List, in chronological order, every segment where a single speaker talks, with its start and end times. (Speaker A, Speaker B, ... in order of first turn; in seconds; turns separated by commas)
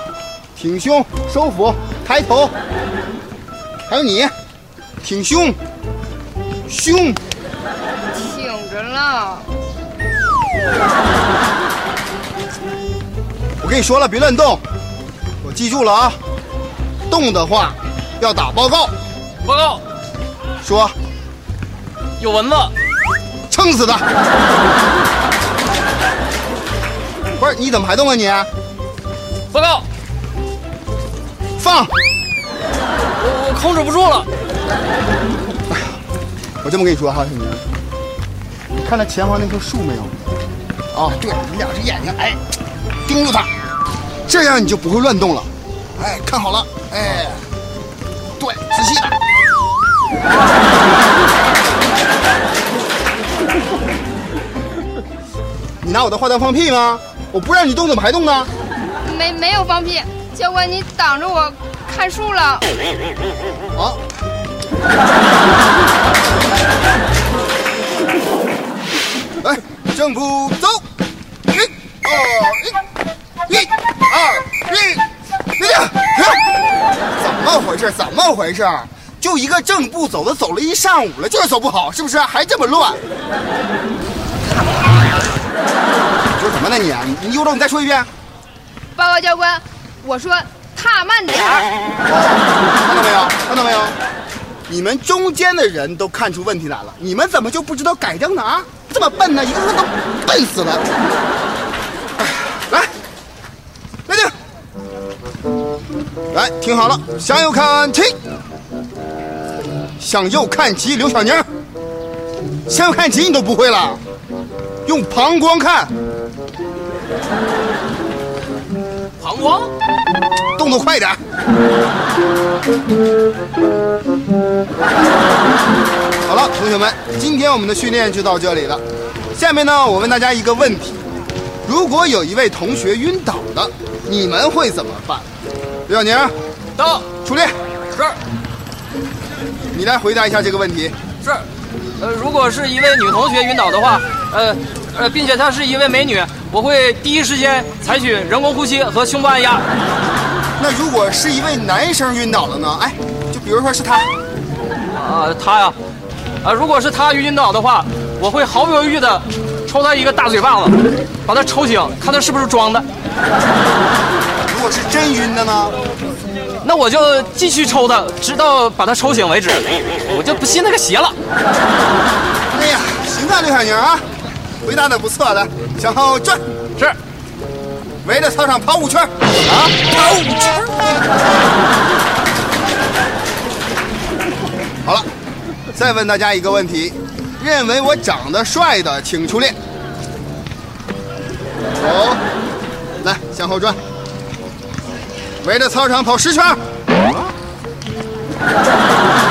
Speaker A: 0.6-2.5, Speaker A: 3.9-4.3, Speaker A: 5.0-5.6, Speaker A: 6.7-7.2, Speaker B: 8.1-9.5, Speaker A: 13.6-14.6, Speaker A: 15.4-16.2, Speaker A: 17.1-18.9, Speaker C: 19.4-19.8, Speaker A: 20.6-20.9, Speaker C: 22.2-22.7, Speaker A: 23.5-24.1, Speaker A: 27.4-28.5, Speaker C: 29.5-29.8, Speaker A: 31.6-31.9, Speaker C: 33.2-34.3, Speaker A: 36.6-37.6, Speaker A: 38.7-40.1, Speaker A: 40.9-42.4, Speaker A: 43.1-43.5, Speaker A: 44.2-47.4, Speaker A: 48.4-49.2, Speaker A: 55.8-58.5, Speaker B: 59.0-62.7, Speaker A: 63.8-64.0, Speaker A: 69.4-70.8, Speaker A: 71.5-72.8, Speaker A: 73.5-75.0, Speaker A: 75.6-76.4, Speaker A: 77.1-83.0, Speaker A: 86.4-88.1, Speaker B: 88.9-91.7, Speaker A: 92.1-93.9, Speaker A: 94.7-100.8, Speaker A: 102.4-102.9, Speaker A: 104.1-104.3, Speaker A: 106.3-108.2, Speaker A: 110.0-111.5, Speaker A: 112.7-114.0, Speaker A: 114.8-115.9, Speaker C: 119.2-119.7, Speaker A: 120.5-121.2, Speaker A: 126.3-128.8, Speaker A: 129.3-131.0, Speaker A: 131.7-135.3, Speaker A: 135.9-136.3, Speaker C: 136.8-137.1, Speaker A: 137.2-137.6, Speaker A: 139.7-140.9, Speaker C: 142.0-149.6, Speaker A: 150.6-154.1, Speaker C: 154.9-155.8, Speaker C: 156.4-162.9, Speaker A: 164.5-165.8, Speaker C: 166.6-171.2, Speaker A: 172.5-174.1, Speaker A: 174.6-176.4, Speaker A: 178.0-179.9, Speaker A: 185.7-189.6, Speaker A: 191.8-192.2, Speaker A: 193.0-193.8, Speaker A: 195.4-196.6